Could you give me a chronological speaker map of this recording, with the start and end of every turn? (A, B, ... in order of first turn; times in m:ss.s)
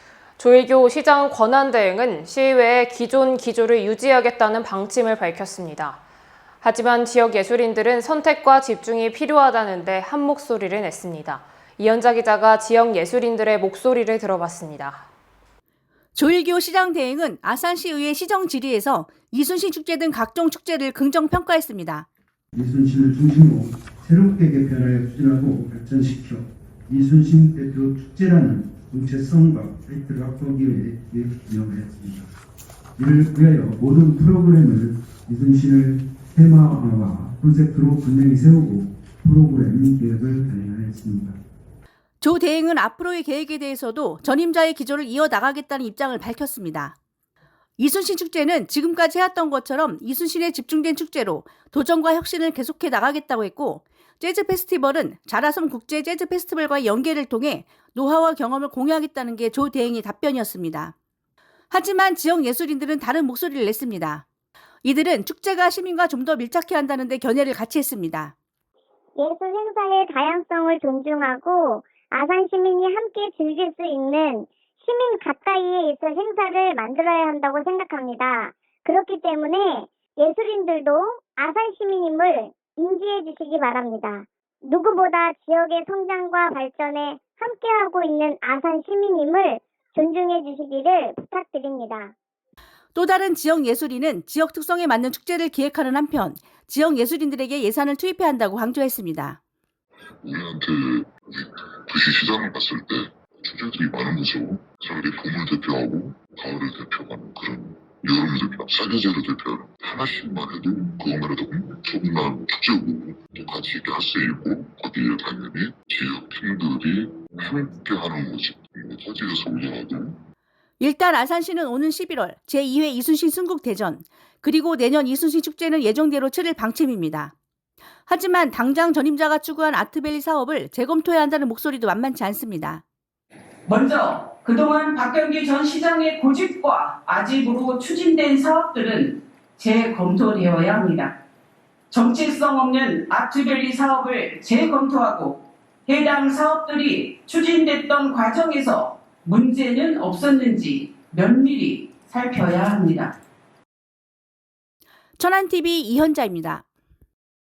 0:00.4-0:06.0 A
0:06.6-0:15.0 A
0:16.1-0:22.0 B
0:22.5-0:32.3 C
0:33.0-0:41.4 C
0:42.2-0:47.0 B
0:47.8-1:00.9 B
1:01.7-1:04.2 B
1:04.8-1:08.3 B
1:09.2-1:32.1 D
1:32.9-1:39.4 B
1:40.2-2:00.2 E
2:00.8-2:07.3 B
2:08.1-2:12.8 B
2:13.7-2:21.1 F
2:21.9-2:33.1 F
2:35.2-2:36.6 B